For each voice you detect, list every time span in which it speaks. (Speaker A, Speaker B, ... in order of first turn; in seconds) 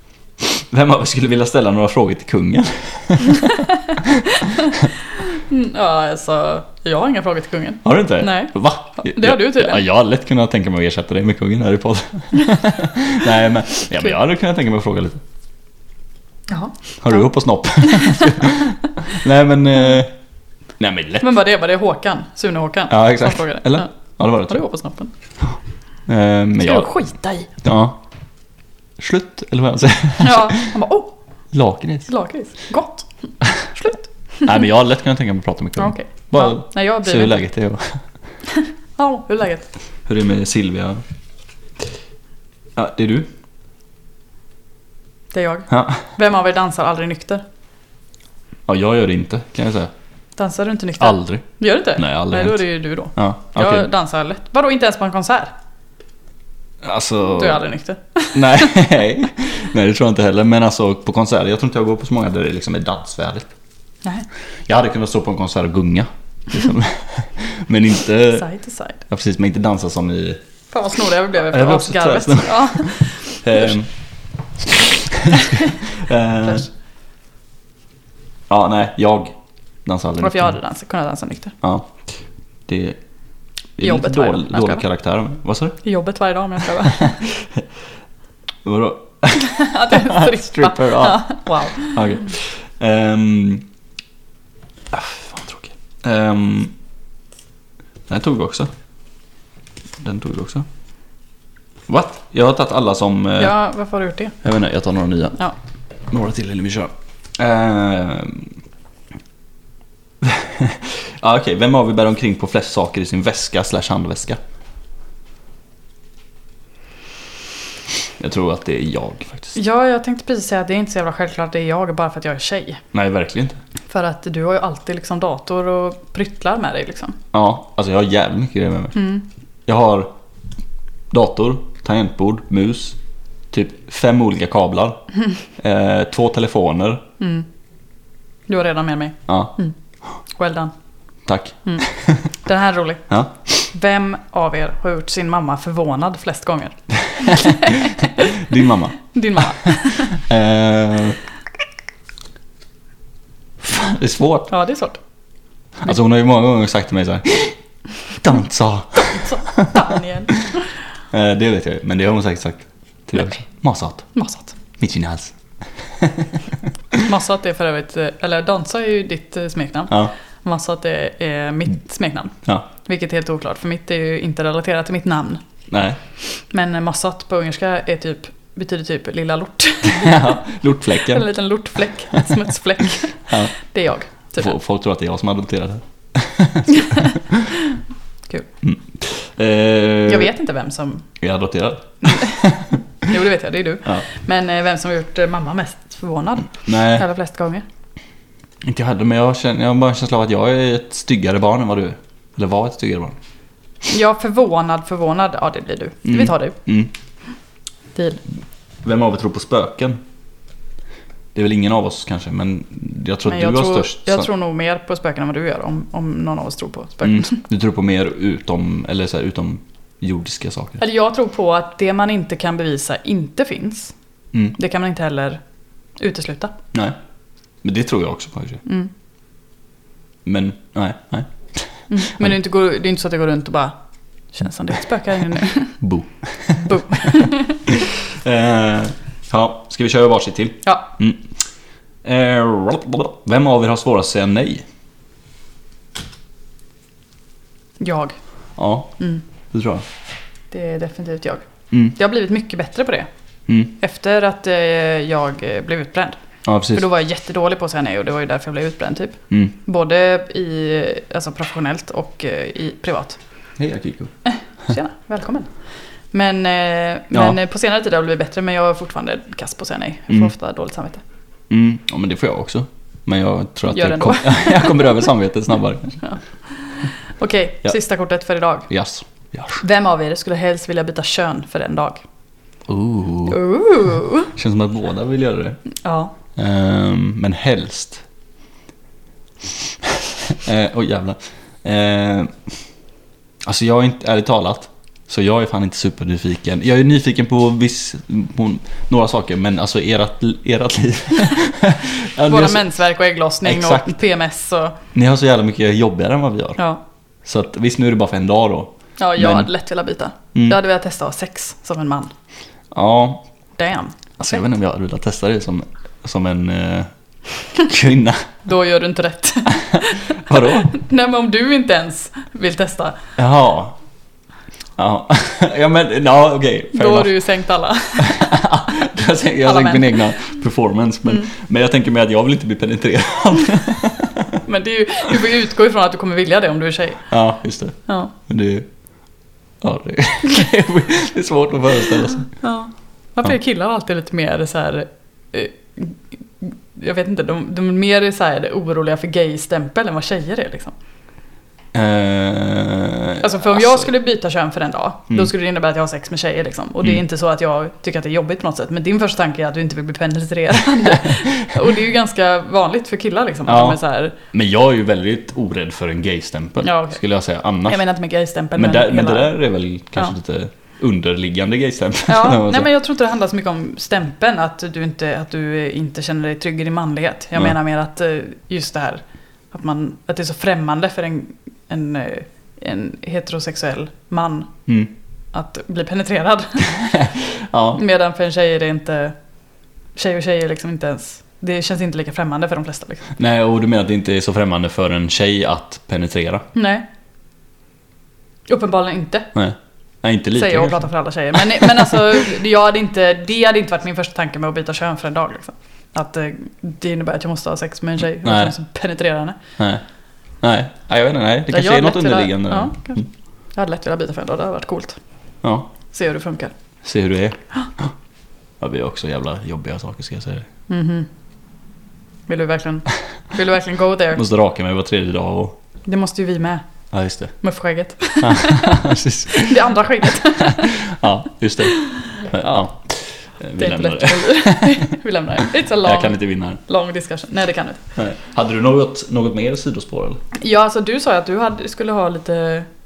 Speaker A: 0.4-4.9, 7.8-15.2, 17.0-20.1, 20.8-21.3, 22.9-24.6, 26.1-26.9, 27.6-28.0, 29.0-30.7, 31.5-32.1, 34.4-38.0, 40.0-41.0, 42.8-43.3, 45.7-46.1, 48.7-49.9, 51.0-51.4, 52.0-53.9, 56.8-57.6, 58.3-63.5, 64.7-68.5, 69.1-70.4, 71.5-73.9, 74.6-76.7, 78.5-80.5, 81.6-81.9, 82.7-83.0, 83.8-85.8, 86.8-87.6, 88.6-93.7, 94.9-96.7, 98.1-98.7, 100.0-100.7, 101.9-103.5, 104.4-105.4, 106.1-108.6, 110.2-114.4, 118.2-119.5, 122.9-123.6, 127.3-129.0, 129.7-130.1, 131.1-133.0, 133.5-135.0, 135.6-137.0, 139.3-139.5, 141.2-142.3, 143.1-143.6, 147.3-151.2, 153.6-154.5, 155.8-157.6, 158.1-160.5, 161.1-164.1, 164.8-166.3, 175.7-176.0, 179.8-181.3, 184.4-187.5, 188.6-190.3, 191.2-192.8, 196.7-197.1, 198.6-203.2, 206.0-206.9, 208.8-210.0, 211.3-214.3, 217.0-220.8, 227.6-228.6, 230.2-232.3, 235.8-241.3, 242.0-244.7, 248.6-249.0, 249.5-249.8, 253.5-253.7, 256.4-256.9, 263.6-264.1, 271.5-276.0, 278.7-279.6, 282.7-283.4, 284.3-285.6, 286.4-288.0, 289.8-292.3, 293.4-302.6, 303.4-303.9, 304.9-306.6, 307.2-309.5, 312.7-313.3, 314.2-316.9, 317.5-318.4, 319.5-320.7, 323.2-323.7, 324.8-327.1, 328.0-334.4, 337.1-338.7, 339.6-342.3, 351.7-353.9, 363.5-363.8, 364.3-367.8, 368.6-372.7, 384.7-384.9, 386.8-387.8, 393.2-396.5, 399.3-402.2, 408.2-408.5, 409.6-409.8, 410.4-413.1, 415.4-415.7, 416.8-417.9, 418.6-420.5, 424.1-425.6, 426.9-427.3, 428.2-434.9, 435.7-436.6, 437.9-440.2
Speaker B: 3.3-9.8, 16.5-17.3, 17.8-18.4, 21.2-23.9, 24.4-25.1, 26.6-27.5, 30.2-31.1, 32.1-33.1, 33.6-34.6, 35.8-37.4, 38.5-39.7, 45.3-47.4, 50.4-55.5, 57.3-58.9, 68.3-69.0, 70.7-73.7, 75.3-75.8, 80.2-81.5, 83.8-84.8, 85.8-87.2, 89.4-92.0, 103.4-104.3, 119.5-122.8, 123.9-127.2, 128.9-129.2, 137.2-137.4, 138.5-139.7, 140.3-140.7, 141.6-141.9, 142.4-143.0, 143.7-150.2, 154.5-155.0, 158.9-160.6, 164.1-164.6, 167.0-175.4, 176.3-184.5, 186.7-188.5, 190.1-191.1, 192.0-192.5, 193.1-197.6, 203.8-206.6, 207.9-208.2, 213.3-217.4, 220.8-223.9, 224.5-225.4, 226.0-226.5, 228.6-228.9, 231.9-233.7, 234.3-235.8, 236.5-237.7, 240.6-240.9, 247.8-248.2, 250.5-253.1, 253.8-256.2, 256.7-263.2, 264.2-265.5, 266.1-271.0, 273.7-275.1, 276.0-278.7, 279.6-282.0, 283.3-284.3, 285.8-286.1, 302.3-304.8, 309.0-312.1, 313.6-314.2, 318.4-323.0, 326.7-328.8, 329.4-330.1, 334.4-337.1, 337.9-338.1, 342.4-350.7, 353.2-364.1, 366.6-367.0, 367.7-369.3, 372.1-384.5, 385.3-387.0, 387.7-389.1, 389.9-393.1, 396.5-396.8, 398.5-399.3, 400.4-409.4, 411.5-415.0, 415.9-416.5, 420.7-421.1, 422.3-424.2, 425.9-426.7, 427.4-430.9, 431.7-432.7, 433.6-437.8, 440.3-442.7